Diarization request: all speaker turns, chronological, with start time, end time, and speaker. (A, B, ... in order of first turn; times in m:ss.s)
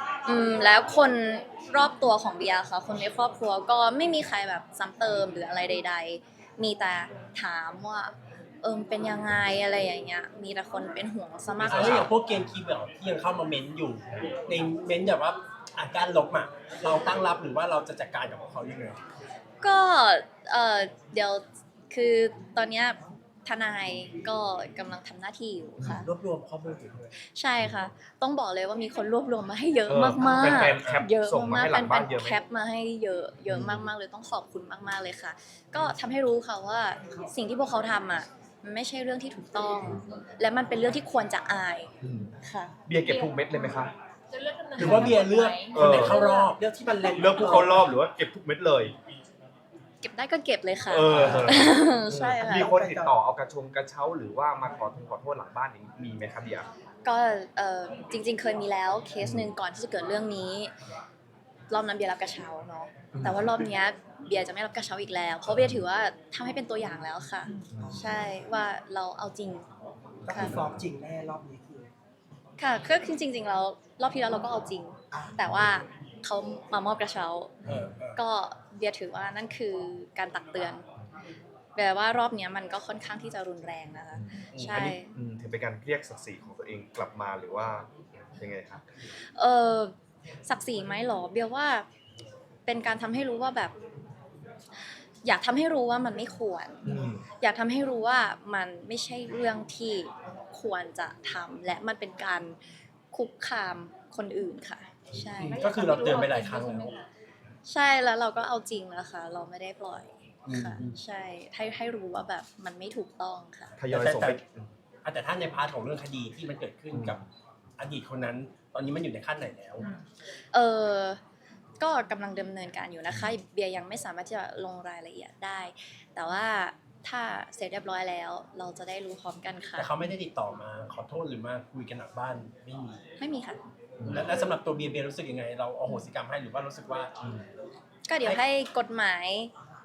0:00.2-0:12.1 A
0:11.6-0:12.1 B
0:11.6-0:19.0 C
0:19.6-0:26.1 A
0:25.8-0:26.1 B
0:26.0-0:27.1 C
0:27.3-0:41.9 A
0:27.6-0:27.9 B
0:29.9-0:32.4 B
0:30.7-0:31.0 C
0:33.5-0:33.9 B
0:42.0-0:42.3 B
0:42.4-0:42.7 A
0:42.9-0:43.9 B
0:43.0-0:46.5 D
0:44.8-0:47.8 C
0:44.8-0:45.1 B
0:45.7-0:46.3 B
0:47.1-0:48.9 B
0:47.1-0:47.6 D
0:50.0-0:52.7 A
0:50.8-0:56.7 B
0:51.1-0:51.5 C
0:52.4-0:53.1 E
0:57.0-1:00.7 A
0:59.2-0:59.5 B
1:01.7-1:09.6 A
1:03.1-1:03.6 B
1:05.4-1:05.8 B
1:07.7-1:08.0 B
1:10.2-1:10.9 B
1:10.2-1:11.9 E
1:10.3-1:10.6 A
1:12.6-1:17.6 A
1:17.6-1:17.9 B
1:17.6-1:18.2 C
1:18.2-1:20.8 A
1:21.8-1:25.1 A
1:24.1-1:28.8 B
1:24.5-1:24.9 C
1:29.3-1:31.8 A
1:32.7-1:33.7 A
1:35.2-1:36.9 A
1:36.8-1:37.2 B
1:37.4-1:42.6 A
1:43.1-1:45.6 A
1:45.4-1:46.9 C
1:45.5-1:47.0 D
1:47.7-1:53.7 A
1:50.4-1:51.0 C
1:53.8-1:54.7 B
1:53.9-1:54.4 C
1:55.0-1:57.2 C
1:56.9-1:57.3 B
1:57.8-1:59.8 C
2:00.5-2:01.2 A
2:01.8-2:09.9 A
2:03.1-2:03.3 B
2:09.8-2:13.0 C
2:13.2-2:13.6 A
2:14.0-2:14.3 B
2:14.0-2:17.1 C
2:17.2-2:17.5 B
2:18.1-2:19.5 A